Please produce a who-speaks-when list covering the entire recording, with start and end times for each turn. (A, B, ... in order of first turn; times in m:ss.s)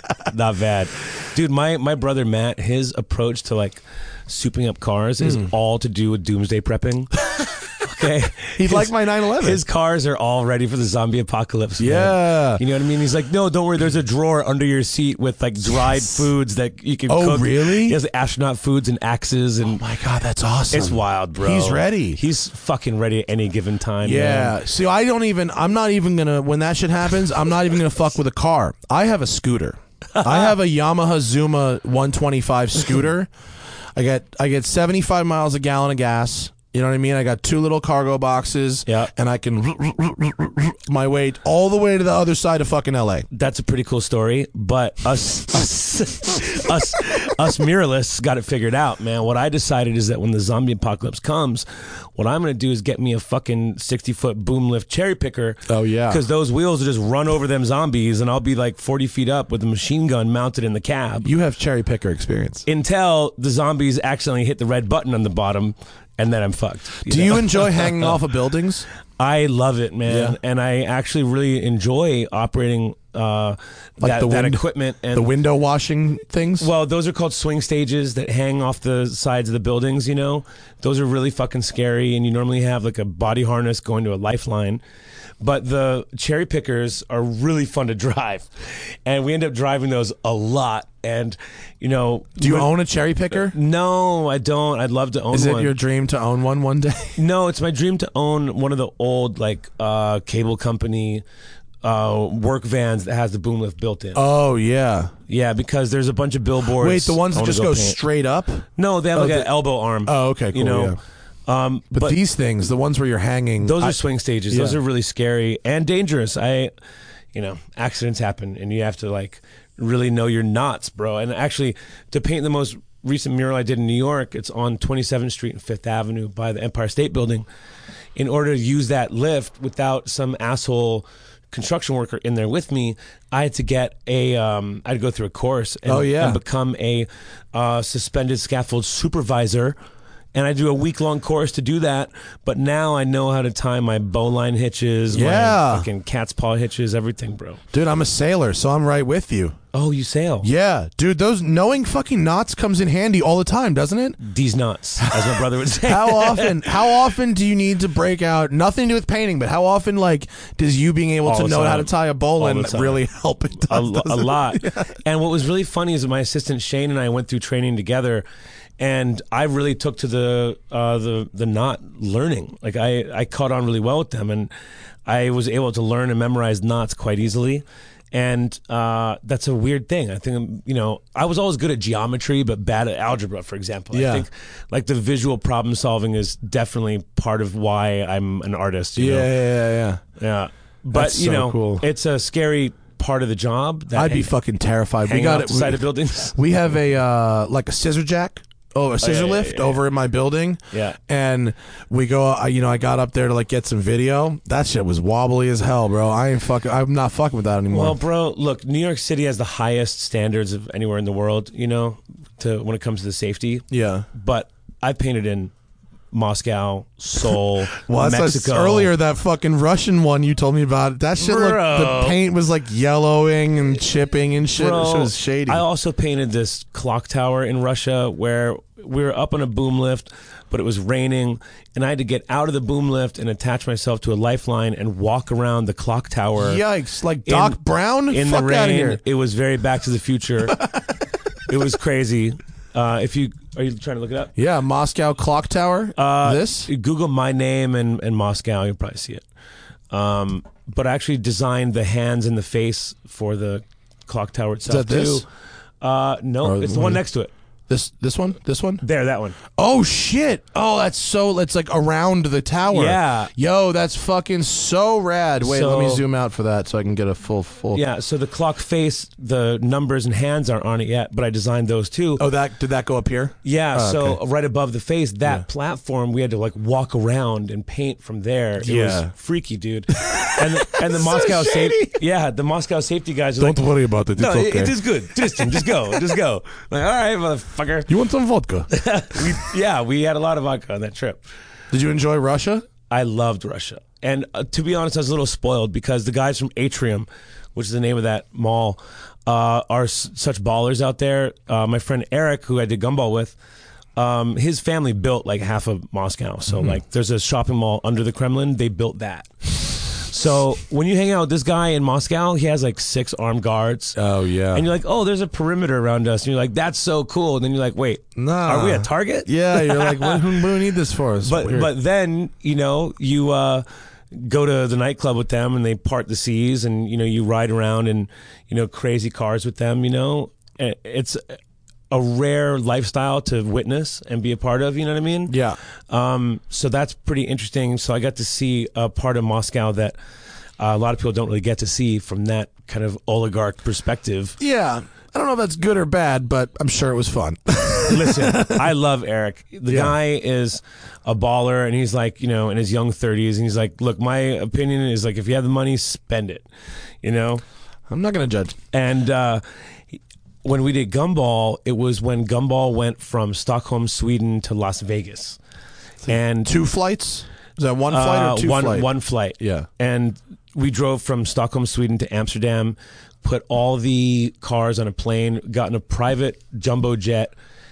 0:00.2-0:07.2 A
0:05.2-0:05.5 B
0:07.8-0:19.8 A
0:08.6-0:09.6 B
0:11.8-0:12.6 B
0:17.1-0:18.0 B
0:19.6-0:22.2 B
0:20.7-0:24.6 A
0:24.0-0:33.3 B
0:30.2-0:30.5 A
0:34.0-0:43.3 B
0:43.3-1:01.3 A
0:55.7-0:56.2 B
1:01.2-1:02.7 B
1:02.7-1:08.2 A
1:07.0-1:08.9 B
1:09.2-1:15.3 A
1:10.1-1:10.4 B
1:14.0-1:16.7 B
1:16.6-1:24.8 A
1:25.4-1:32.7 A
1:32.4-1:33.6 B
1:33.3-1:35.7 A
1:35.3-1:37.2 B
1:37.2-1:41.2 A
1:41.8-1:44.2 A
1:44.2-1:45.1 B
1:45.3-1:48.0 A
1:46.8-1:49.5 B
1:48.8-1:51.0 A
1:50.0-1:51.0 B
1:51.5-1:52.2 A
1:52.0-1:54.0 B
1:53.6-1:56.7 A
1:54.5-1:54.8 B
1:57.3-2:07.5 A
2:08.2-2:19.8 A
2:15.9-2:16.4 B
2:20.4-2:27.6 A
2:25.1-2:25.9 B
2:27.7-2:29.6 B
2:29.7-2:30.5 A
2:30.4-2:34.2 B
2:34.2-2:36.7 A
2:35.0-2:45.0 B
2:41.3-2:43.0 A
2:43.6-2:48.2 A
2:48.8-2:54.5 A
2:55.1-3:09.4 A
3:03.9-3:04.3 B
3:09.0-3:10.0 B
3:10.2-3:14.3 A
3:10.9-3:11.8 B
3:14.0-3:28.0 B
3:15.0-3:16.4 A
3:19.0-3:19.8 A
3:20.7-3:21.0 A
3:27.7-3:35.5 A
3:33.7-3:34.1 B
3:36.1-3:38.9 A
3:37.8-3:45.6 B
3:41.2-3:42.2 A
3:44.5-3:56.6 A
3:56.4-3:59.0 B
3:57.3-3:57.6 A
3:58.1-4:00.7 A
4:01.5-4:04.3 A
4:04.4-4:06.7 B
4:06.0-4:09.2 A
4:09.9-4:15.3 A
4:14.7-4:15.2 B
4:15.8-4:17.3 A
4:16.4-4:17.0 B
4:17.7-4:18.8 B
4:18.8-4:19.4 A
4:19.6-4:27.8 B
4:22.7-4:23.3 A
4:25.4-4:26.0 A
4:27.7-4:32.2 A
4:32.2-4:34.2 B
4:33.4-4:47.9 A
4:38.6-4:39.1 B
4:39.9-4:42.0 B
4:43.4-4:46.2 B
4:47.9-4:48.7 B
4:48.7-4:51.2 A
4:51.7-4:52.7 B
4:52.9-5:03.4 A
5:04.0-5:14.0 A
5:14.0-5:14.6 B
5:14.5-5:20.4 A
5:18.2-5:21.7 B
5:21.2-5:31.4 A
5:31.9-5:35.4 A
5:35.3-5:35.6 B
5:35.9-5:40.0 A
5:40.6-5:44.4 A
5:44.4-5:48.7 B
5:47.9-5:56.5 A
5:49.7-5:50.0 B
5:57.0-5:57.4 A
5:57.9-5:58.6 B
5:58.7-6:05.4 A
6:06.1-6:06.6 A
6:06.4-6:08.9 B
6:07.9-6:17.3 A
6:09.4-6:09.7 B